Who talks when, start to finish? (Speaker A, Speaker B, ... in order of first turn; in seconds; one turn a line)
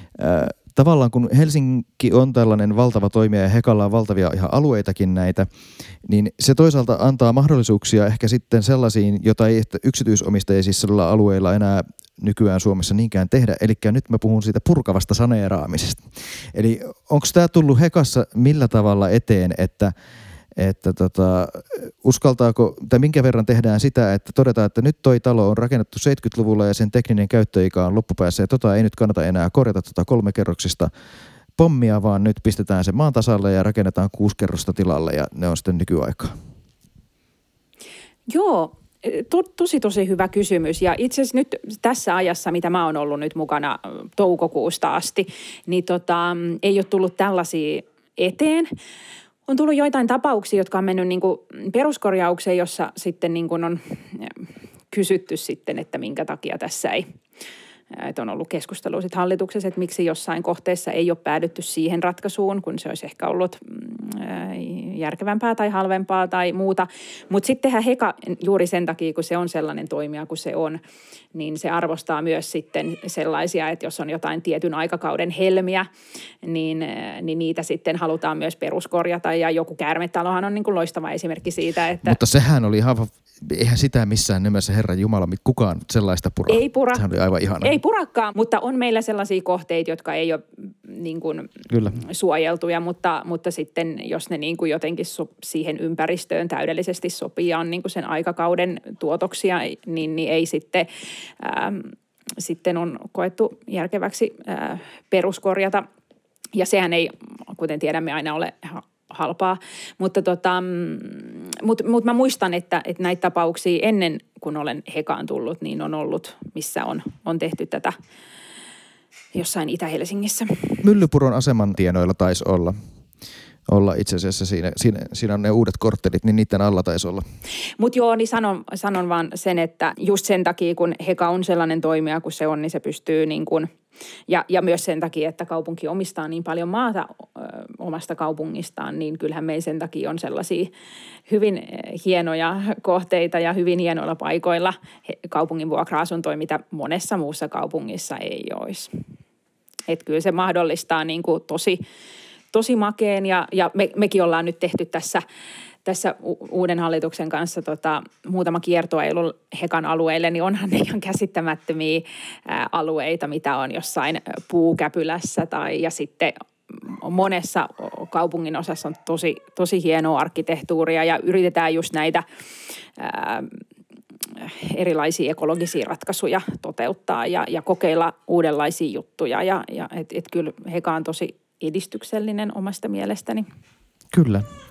Speaker A: 0.1-5.5
Speaker A: 6.0-19.9
Speaker A: 20.6-30.9
Speaker A: 31.6-36.3
Speaker B: 38.3-48.7
Speaker B: 49.5-57.0
Speaker B: 57.9-70.8
Speaker B: 71.3-75.9
Speaker B: 76.4-82.2
Speaker A: 82.0-87.8
Speaker B: 86.5-87.0
Speaker B: 87.6-100.9
Speaker A: 91.7-92.0
Speaker B: 101.4-105.8
Speaker B: 106.5-117.9
Speaker B: 119.3-120.8
Speaker A: 120.8-122.7
Speaker A: 123.7-127.2
Speaker B: 127.8-133.7
Speaker B: 134.3-140.7
Speaker B: 141.3-148.9
Speaker B: 149.9-151.8
Speaker B: 152.5-155.2
Speaker B: 155.8-172.2
Speaker B: 173.0-173.6
Speaker B: 174.3-183.4
Speaker A: 184.1-184.4